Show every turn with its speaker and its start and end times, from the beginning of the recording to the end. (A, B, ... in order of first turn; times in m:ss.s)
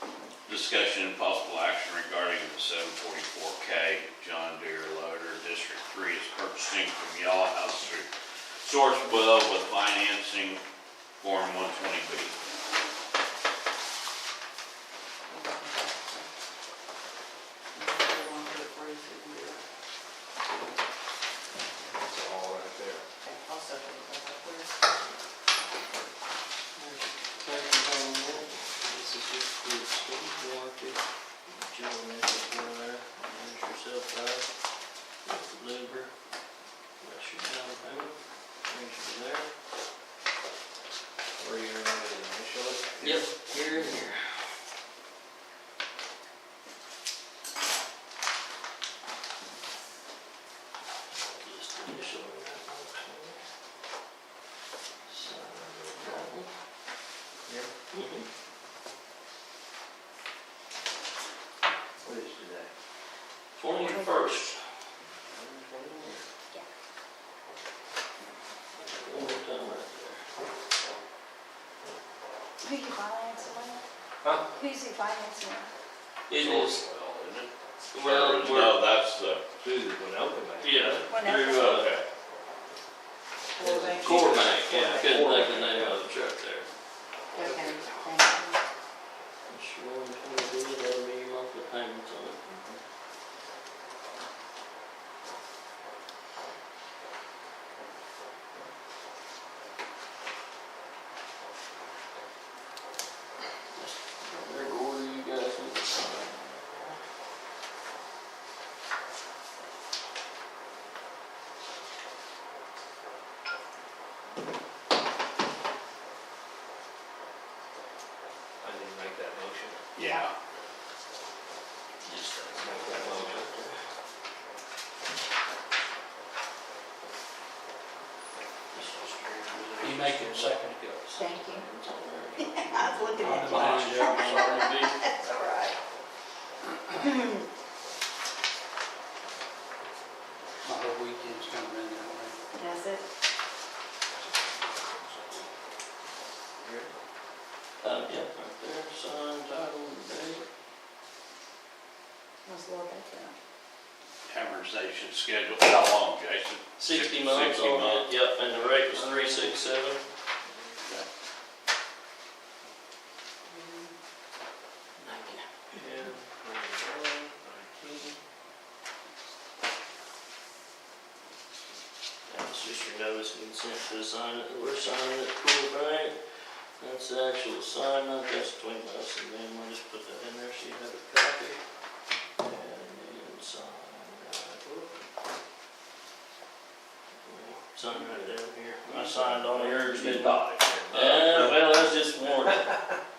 0:00.5-0:08.1 A
0:08.6-0:10.6 A
0:11.2-0:12.4 A
0:15.3-0:16.3 B
0:17.7-0:19.6 B
0:22.0-0:23.0 C
0:23.2-0:24.7 B
0:26.8-0:34.5 D
0:35.2-0:36.1 D
0:37.0-0:39.5 D
0:41.4-0:43.2 C
0:43.0-0:44.2 D
0:51.4-0:53.4 D
0:55.1-0:56.5 D
0:57.4-0:57.7 C
0:57.9-0:58.3 D
1:02.0-1:02.7 C
1:03.5-1:04.6 D
1:03.8-1:04.3 B
1:05.3-1:06.2 C
1:08.8-1:10.2 D
1:12.6-1:13.8 B
1:14.5-1:15.7 B
1:16.3-1:16.8 D
1:16.4-1:17.5 A
1:17.9-1:18.9 D
1:18.0-1:19.4 A
1:19.6-1:21.1 C
1:20.6-1:21.9 D
1:21.1-1:21.8 B
1:21.2-1:22.0 A
1:23.6-1:24.4 B
1:23.6-1:26.0 C
1:23.6-1:26.7 D
1:27.3-1:28.6 B
1:27.4-1:27.9 C
1:29.5-1:32.4 D
1:32.4-1:32.8 C
1:43.7-1:47.0 D
1:58.6-1:59.8 C
2:00.0-2:00.3 A
2:02.0-2:03.8 D
2:02.6-2:03.4 C
2:08.7-2:14.9 D
2:09.8-2:10.7 E
2:11.1-2:11.6 B
2:12.4-2:15.8 B
2:13.2-2:14.8 E
2:17.0-2:17.3 B
2:20.6-2:22.4 E
2:22.6-2:23.0 B
2:26.6-2:26.9 C
2:27.8-2:30.4 D
2:32.4-2:33.3 B
2:34.2-2:38.1 A
2:36.8-2:40.0 D
2:38.5-2:39.6 C
2:43.5-2:43.9 B
2:45.0-2:46.1 D
2:45.0-2:48.1 C
2:52.3-2:56.2 D
2:56.8-3:01.6 D
3:02.4-3:04.6 D
3:04.6-3:05.0 C
3:07.2-3:12.7 D
3:07.9-3:08.3 C
3:08.9-3:11.6 C